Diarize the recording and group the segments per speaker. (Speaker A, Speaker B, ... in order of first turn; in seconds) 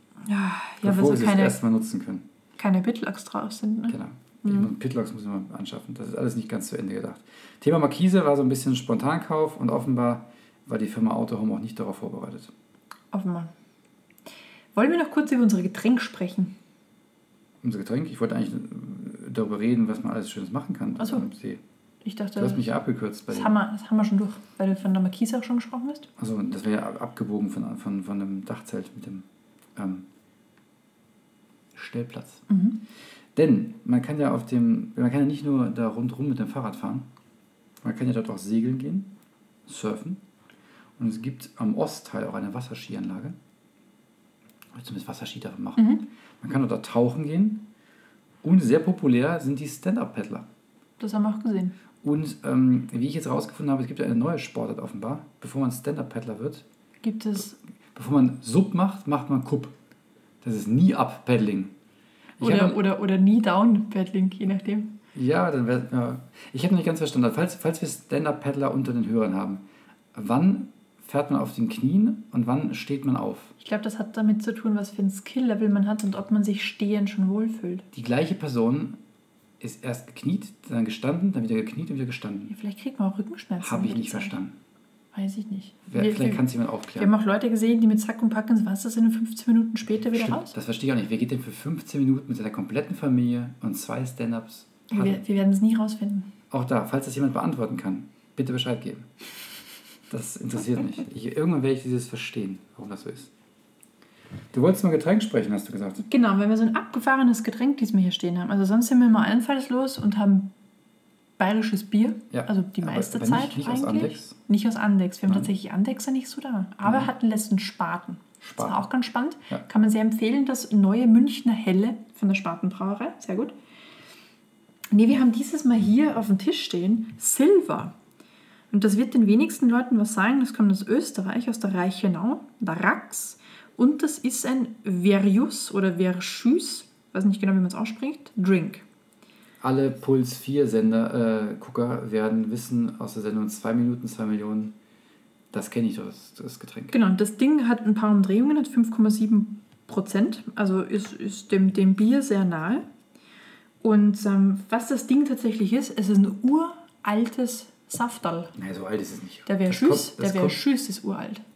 Speaker A: 0.2-1.6, 2.6-4.7, 13.1-13.5, 14.7-16.5, 21.0-21.3, 22.0-22.7, 23.3-26.1, 32.5-32.8, 45.8-46.0, 51.0-51.8, 57.0-57.5, 62.4-64.9, 73.6-77.8, 82.5-84.4, 85.1-86.4, 87.0-90.5, 94.9-96.3, 106.0-110.5, 111.4-123.5, 124.9-127.9, 128.7-138.8, 146.9-152.8, 153.8-158.5, 159.5-161.4
Speaker B: 0.8-2.2, 3.9-12.5, 17.6-21.6, 22.4-23.5, 26.2-30.1, 31.7-32.4, 33.3-37.1, 37.8-39.1, 39.6-40.2, 41.0-43.4, 44.7-47.6, 48.4-50.5, 52.0-56.6, 57.9-59.7, 60.4-61.7, 62.4-62.8, 65.1-69.6, 70.1-73.5, 77.9-79.0, 79.6-82.5, 83.6-84.5, 85.9-87.1, 90.1-95.2, 96.5-99.1, 100.1-103.3, 104.5-106.0, 112.3-114.4, 116.8-117.1, 118.4-118.8, 139.6-144.7, 145.5-146.9, 158.5-160.6